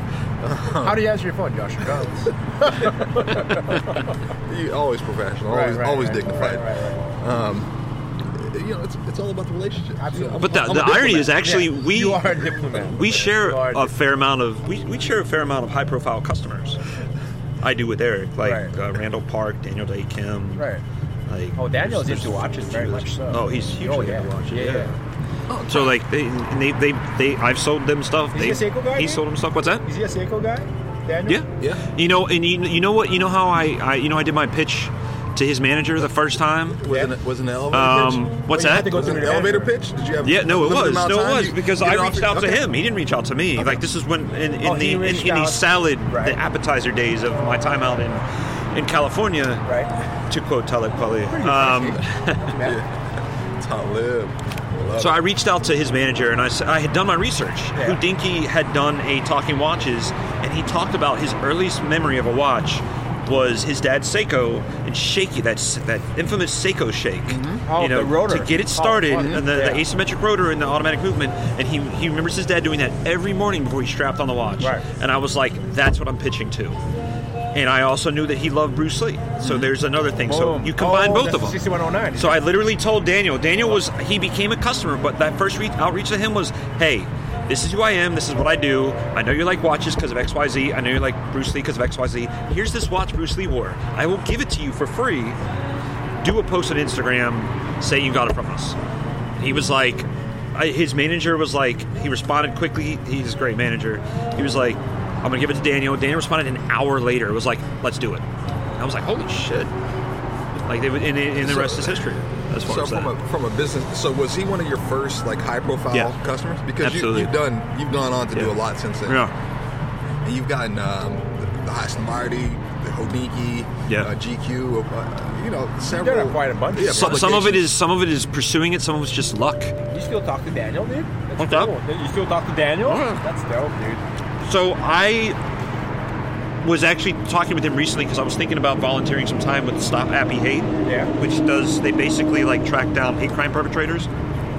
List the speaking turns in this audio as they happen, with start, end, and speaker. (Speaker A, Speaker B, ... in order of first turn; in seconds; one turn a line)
Speaker A: 0.4-1.1
Speaker B: 0.8-4.1
Speaker A: 4.5-7.7
Speaker B: 5.5-7.0
Speaker A: 8.2-11.5
Speaker B: 10.0-13.9
Speaker C: 10.4-16.8
Speaker C: 17.6-20.7
Speaker B: 18.4-18.7
Speaker B: 20.6-20.8
Speaker C: 21.3-24.9
Speaker B: 21.6-24.9
Speaker A: 25.5-25.9
Speaker C: 25.7-29.9
Speaker B: 28.3-29.2
Speaker B: 29.8-31.4
Speaker C: 31.2-36.8
Speaker A: 36.8-38.3
Speaker B: 36.8-37.1
Speaker C: 37.7-39.0
Speaker B: 38.5-39.7
Speaker A: 38.8-42.7
Speaker C: 40.2-49.6
Speaker A: 43.5-43.8
Speaker B: 44.6-46.4
Speaker B: 49.6-49.9
Speaker C: 50.3-52.6
Speaker B: 51.3-52.8
Speaker A: 52.6-52.9
Speaker A: 53.6-55.2
Speaker C: 55.0-76.8
Speaker A: 67.3-67.6
Speaker B: 67.7-69.8
Speaker A: 69.1-69.4
Speaker C: 77.5-81.6
Speaker A: 79.4-79.7
Speaker B: 80.2-82.4
Speaker C: 82.1-95.4
Speaker C: 96.2-98.8
Speaker C: 99.4-108.2
Speaker C: 108.8-109.7
Speaker C: 110.5-113.1
Speaker A: 111.4-112.1
Speaker A: 112.6-119.2
Speaker C: 116.8-117.3
Speaker C: 119.0-119.3
Speaker A: 120.2-127.7
Speaker B: 125.9-127.4
Speaker C: 126.8-129.7
Speaker B: 129.9-134.0
Speaker C: 131.4-131.7
Speaker C: 132.8-133.2
Speaker C: 134.4-135.4
Speaker C: 136.6-144.1
Speaker B: 140.8-141.1